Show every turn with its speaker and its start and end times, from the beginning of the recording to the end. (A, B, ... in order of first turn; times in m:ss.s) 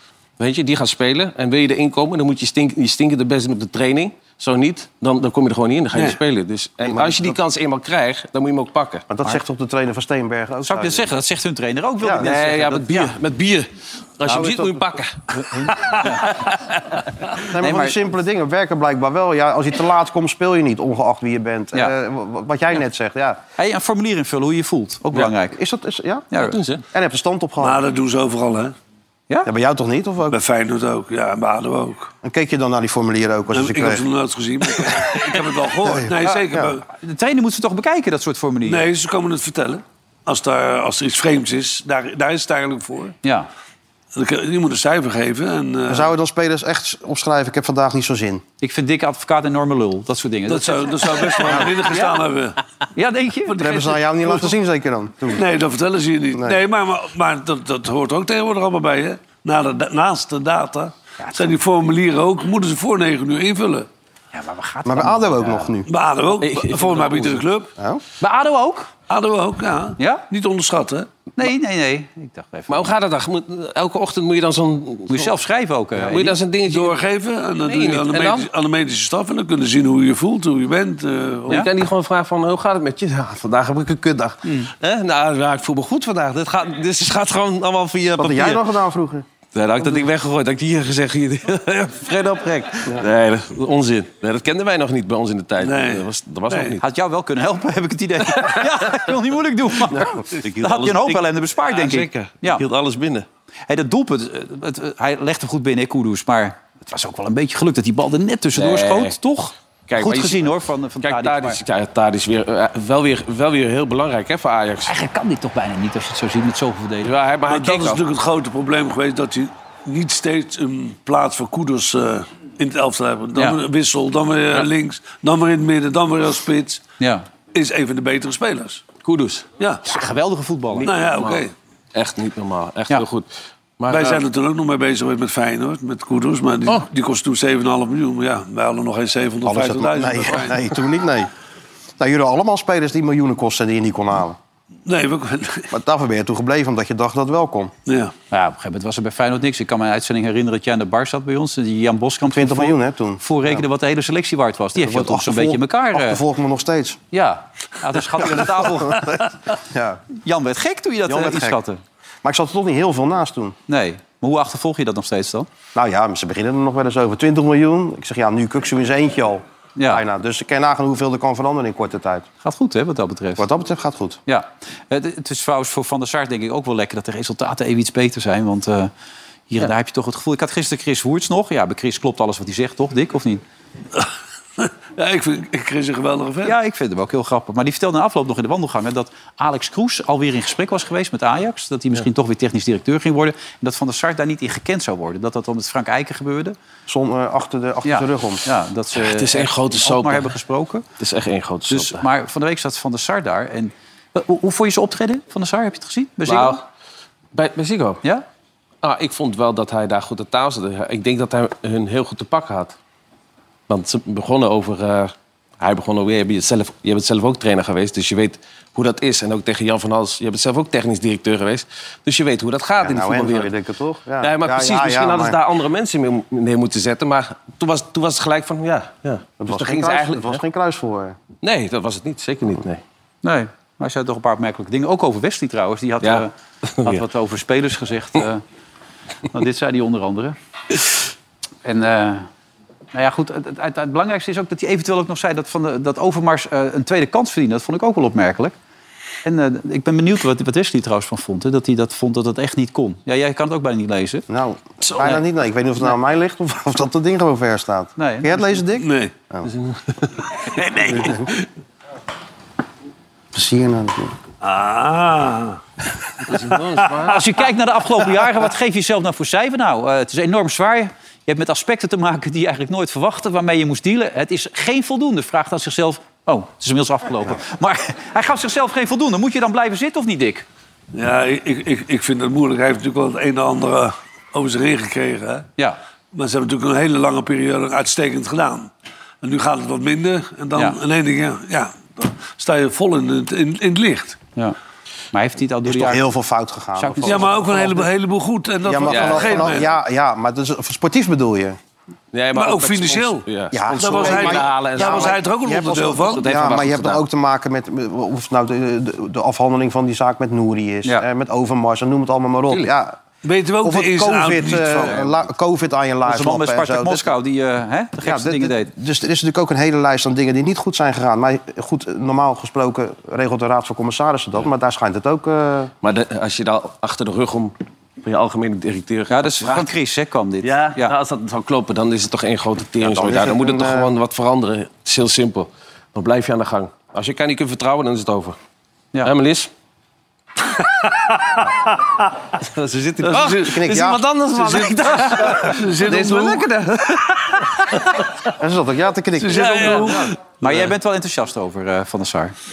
0:00.4-0:09.0 A
0:06.8-0:07.4 B
0:09.1-0:11.1 B
0:10.6-0:13.1 C
0:12.2-0:13.7 A
0:14.2-0:16.1 A
0:14.2-0:14.8 B
0:15.4-0:16.5 C
0:17.4-0:23.4 B
0:17.6-0:18.0 C
0:23.6-0:25.6 C
0:25.5-0:26.3 B
0:26.3-0:26.6 C
0:26.4-0:26.8 A
0:26.9-0:27.8 B
0:27.6-0:28.7 D
0:29.4-0:30.4 B
0:30.3-0:32.1 D
0:32.2-0:34.0 B
0:33.5-0:36.8 D
0:34.7-0:36.7 B
0:36.9-0:38.8 C
0:38.6-0:43.1 D
0:43.2-0:43.5 C
0:44.1-0:46.1 D
0:45.9-0:48.4 B
0:48.6-0:52.2 C
0:50.5-0:52.6 D
0:52.9-0:53.6 C
0:53.5-0:54.5 D
0:53.6-0:55.4 B
0:55.3-1:03.9 D
1:01.2-1:01.5 C
1:04.3-1:05.7 C
1:04.8-1:05.9 B
1:05.9-1:07.7 D
1:06.4-1:07.4 A
1:08.2-1:08.9 C
1:09.1-1:11.1 D
1:10.0-1:10.2 C
1:11.4-1:12.9 C
1:12.7-1:15.3 A
1:15.1-1:16.4 C
1:16.0-1:17.0 A
1:16.7-1:21.6 D
1:17.7-1:18.4 A
1:21.5-1:28.6 A
1:24.4-1:24.7 C
1:28.2-1:29.2 B
1:29.5-1:36.8 A
1:35.6-1:36.7 D
1:36.8-1:42.6 C
1:38.4-1:38.9 A
1:39.9-1:43.2 A
1:43.7-1:51.6 C
1:48.5-1:49.2 A
1:49.9-1:54.9 A
1:54.8-1:57.1 C
1:57.0-1:58.0 A
1:57.5-2:06.8 D
2:07.0-2:07.2 C
2:07.5-2:08.8 D
2:09.0-2:09.4 A
2:09.6-2:09.8 D
2:09.8-2:10.9 C
2:10.8-2:14.2 A
2:10.8-2:11.5 D
2:13.9-2:20.6 D
2:19.4-2:21.3 B
2:22.0-2:24.4 B
2:24.8-2:25.7 D
2:25.7-2:27.7 B
2:27.8-2:28.1 D
2:28.3-2:36.2 C
2:32.3-2:33.6 B
2:34.8-2:37.0 B
2:37.1-2:39.1 C
2:38.2-2:40.0 B
2:40.2-2:41.8 C
2:41.1-2:41.6 B
2:42.2-2:43.5 B
2:43.7-2:45.5 C
2:45.7-2:52.2 B
2:49.8-2:50.0 C
2:52.4-2:53.4 C
2:53.4-2:54.2 B
2:54.3-2:58.9 C
2:59.5-3:03.4 C
3:04.6-3:06.5 D
3:06.4-3:16.6 C
3:16.9-3:18.4 B
3:17.8-3:20.8 C
3:18.9-3:20.3 A
3:21.0-3:22.0 A
3:21.7-3:26.6 C
3:26.2-3:26.6 A
3:27.3-3:28.0 A
3:28.8-3:32.7 A
3:33.7-3:43.5 A
3:42.8-3:45.4 B
3:44.2-3:50.4 A
3:49.4-3:51.2 B
3:51.4-3:52.8 A
3:53.2-3:56.3 C
3:56.0-3:57.0 A
3:56.8-3:58.4 C
3:59.3-4:00.4 C
4:01.6-4:02.3 C
4:02.9-4:08.5 C
4:09.2-4:14.2 C
4:14.3-4:19.5 B
4:14.8-4:15.1 A
4:18.0-4:18.5 C
4:18.8-4:19.1 D
4:19.4-4:21.4 A
4:20.9-4:21.3 B
4:23.3-4:24.1 B
4:24.4-4:25.6 D
4:26.3-4:27.2 A
4:26.3-4:26.9 D
4:27.1-4:40.4 C
4:40.9-4:45.5 D
4:46.1-4:48.7 D
4:49.2-4:54.2 D
4:55.1-4:56.1 C
4:55.6-4:57.8 B
4:56.8-4:57.6 C
4:57.0-4:59.7 D
4:58.6-5:01.6 B
4:58.8-4:59.6 A
5:02.1-5:05.2 A
5:02.3-5:06.2 D
5:03.5-5:13.0 B
5:06.1-5:07.0 A
5:13.2-5:15.1 D
5:13.6-5:17.1 B
5:16.0-5:18.7 C
5:18.0-5:25.7 B
5:25.8-5:29.7 A
5:29.1-5:30.9 C
5:30.4-5:38.4 A
5:32.8-5:33.9 B
5:39.0-5:39.5 A
5:41.1-5:41.4 D
5:42.4-5:47.4 A
5:43.0-5:43.7 D
5:43.4-5:44.6 B
5:45.3-5:46.5 D
5:48.4-5:50.1 B
5:49.2-5:50.1 D
5:49.5-5:49.8 A
5:50.4-5:52.3 C